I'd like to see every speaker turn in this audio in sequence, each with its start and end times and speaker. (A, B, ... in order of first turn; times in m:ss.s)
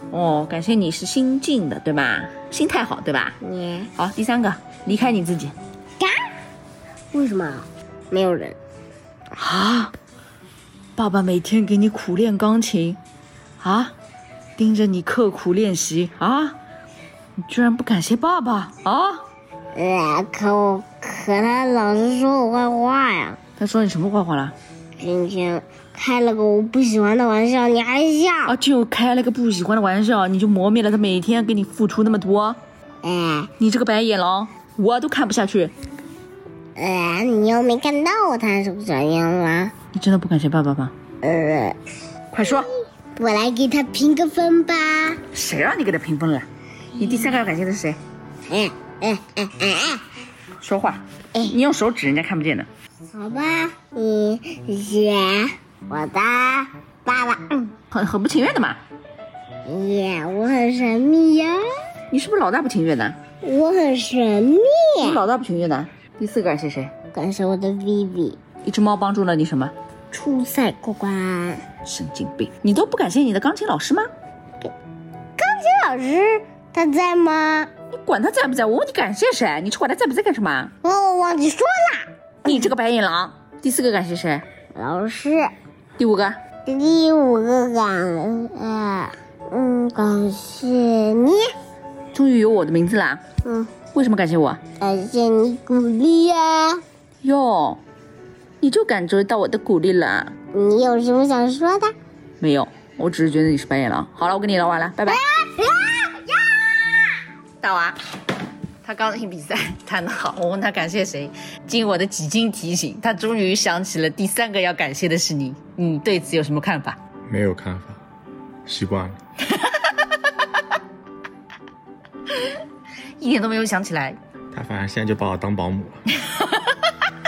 0:00.1-0:03.4 A
0:03.4-0:03.9 B
0:04.0-0:05.5 A
0:07.1-0:08.6 B
0:09.3-0:09.9 A
0:11.0-0:13.0 A
0:13.6-0:13.9 A
0:14.6-0:16.6 A
0:17.4-0:19.2 A
0:19.7-0:23.4 B
0:23.6-0:24.5 A
0:25.0-0:28.6 B
0:28.4-0:32.6 A
0:33.0-0:33.5 B
0:33.6-0:35.7 A
0:36.8-0:39.7 B
0:39.9-0:40.9 A
0:41.2-0:41.8 B
0:42.3-0:42.7 A
0:43.2-0:45.2 B
0:45.3-0:48.0 A
0:48.5-0:50.0 B
0:50.6-0:52.7 A
0:53.1-0:57.7 B
0:57.9-0:58.8 A
0:59.6-1:01.6 B
1:02.1-1:03.2 A
1:03.4-1:05.2 B
1:05.0-1:06.9 A
1:07.1-1:08.4 B
1:08.6-1:09.7 A
1:10.1-1:11.6 B
1:11.8-1:14.1 A
1:15.4-1:17.7 B
1:17.9-1:20.7 A
1:20.8-1:22.6 B
1:22.4-1:24.4 A
1:24.7-1:25.5 B
1:26.0-1:26.4 A
1:26.6-1:31.5 B
1:32.1-1:33.2 A
1:33.4-1:33.7 B
1:33.9-1:34.6 A
1:34.8-1:36.8 B
1:37.2-1:37.8 A
1:38.6-1:40.3 A
1:40.5-1:41.9 B
1:42.4-1:45.2 A
1:45.1-1:47.2 B
1:47.6-1:48.0 A
1:48.8-1:57.0 A
1:57.3-1:58.0 C
1:58.6-1:59.2 C
1:59.4-2:00.0 A
2:02.3-2:02.6 A
2:03.2-2:04.2 A
2:04.5-2:06.0 C
2:06.1-2:07.0 A